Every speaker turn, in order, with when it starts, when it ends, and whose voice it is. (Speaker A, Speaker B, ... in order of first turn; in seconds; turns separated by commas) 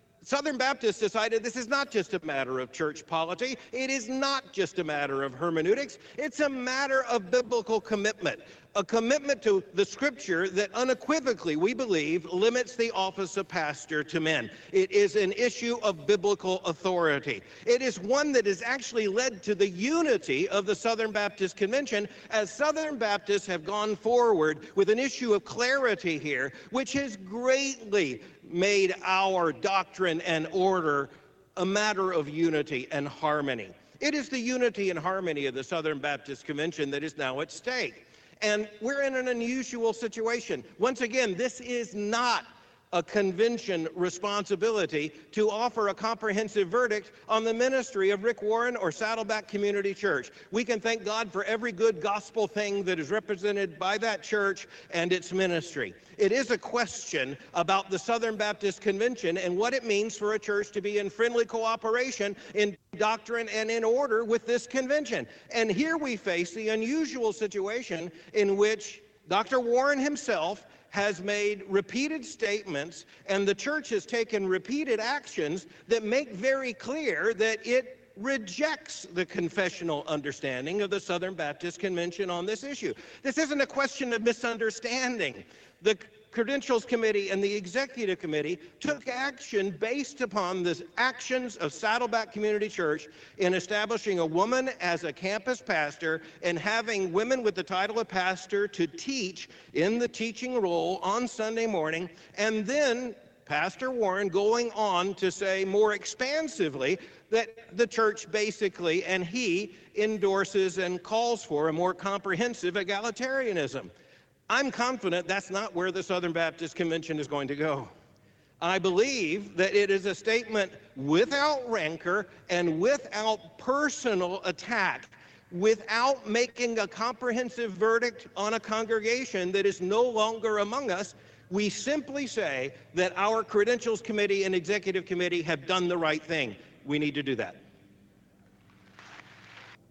Speaker A: 0.2-113.9, Speaker A: 114.5-117.9, Speaker A: 118.6-137.6